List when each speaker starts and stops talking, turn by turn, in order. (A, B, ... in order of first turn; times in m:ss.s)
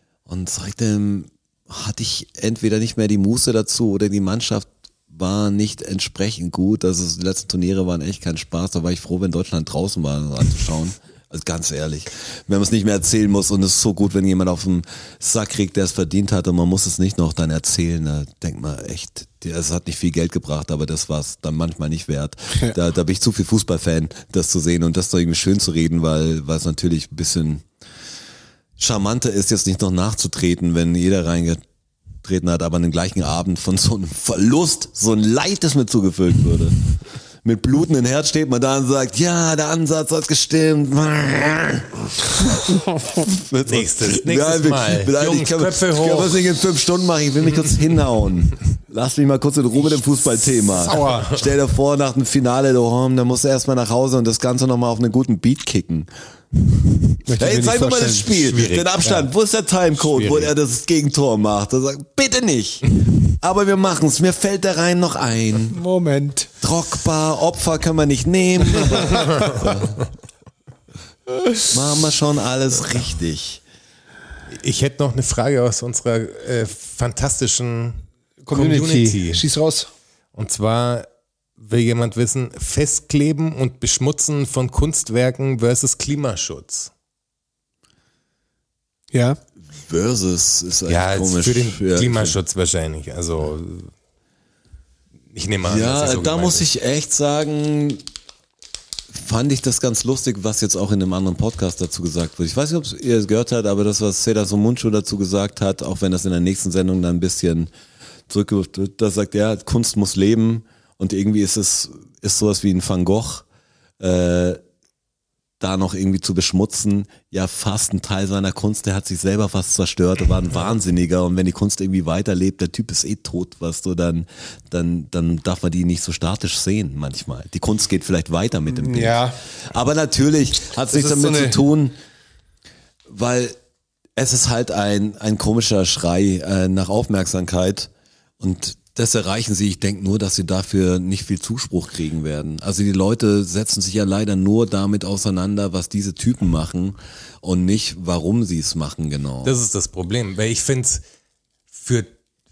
0:00.3-0:27.6 A
0:28.8-0:31.6 A
0:32.2-0:36.8 A
0:37.4-0:56.1 A
0:43.7-0:46.4 B
0:50.8-0:51.4 C
0:57.3-0:58.5 C
0:57.4-1:05.8 A
0:58.5-0:59.3 B
1:00.0-1:00.5 B
1:05.7-1:06.5 C
1:06.6-1:10.0 A
1:11.6-1:13.6 A
1:14.5-1:19.4 B
1:18.4-1:19.9 C
1:20.4-1:26.9 B
1:29.1-1:29.4 C
1:29.8-1:32.4 A
1:30.9-1:33.9 B
1:35.3-1:36.7 B
1:35.6-1:38.0 A
1:39.1-1:47.7 A
1:48.3-1:53.4 A
1:54.0-1:54.6 A
1:55.6-2:12.0 A
2:08.7-2:09.4 C
2:10.9-2:11.6 C
2:13.1-2:13.6 A
2:14.2-2:29.6 A
2:29.4-2:31.0 B
2:31.7-2:32.1 B